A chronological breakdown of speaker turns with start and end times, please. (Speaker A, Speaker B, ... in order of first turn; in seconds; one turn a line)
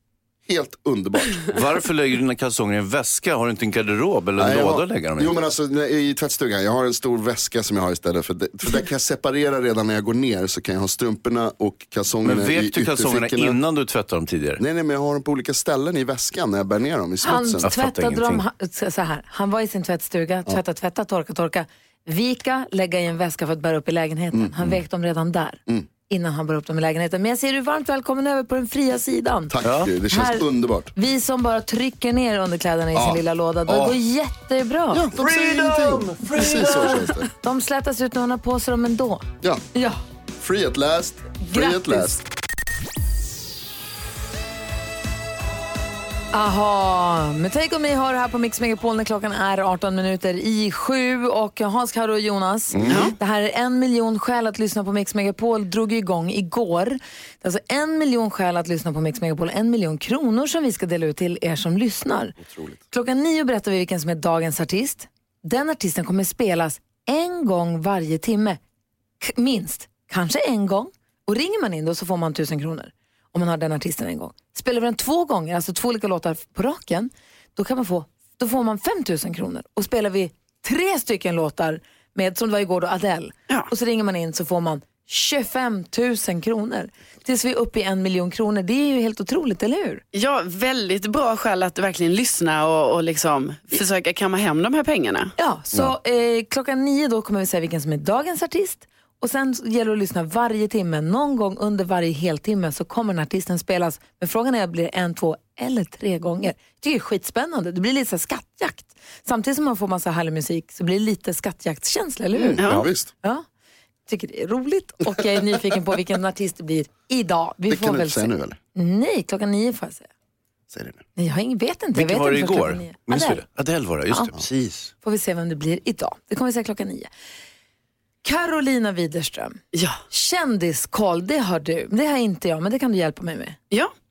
Speaker A: 0.5-1.6
Speaker B: 1.5-5.3
Speaker A: 4.4-13.6
Speaker B: 12.2-14.6
Speaker A: 14.6-17.7
Speaker C: 17.2-29.5
Speaker B: 17.6-18.4
Speaker A: 24.3-24.8
Speaker A: 29.5-30.9
Speaker B: 29.6-29.9
Speaker C: 30.1-35.1
Speaker A: 32.9-34.0
Speaker A: 34.9-37.3
Speaker C: 36.3-40.0
Speaker A: 40.4-42.2
Speaker C: 41.4-42.2
Speaker C: 46.3-62.4
Speaker B: 52.7-53.1
Speaker A: 52.8-53.1
Speaker D: 52.9-53.1
Speaker A: 62.4-62.8
Speaker C: 62.9-68.6
Speaker C: 69.2-90.0
Speaker D: 90.1-95.3
Speaker C: 95.4-113.4
Speaker A: 112.4-113.1
Speaker D: 112.6-112.9
Speaker C: 114.1-120.1
Speaker A: 117.7-118.6
Speaker A: 120.7-121.0
Speaker C: 121.2-123.4
Speaker B: 122.0-124.9
Speaker C: 125.0-127.1
Speaker C: 128.2-129.6
Speaker D: 129.7-130.0
Speaker C: 130.1-133.6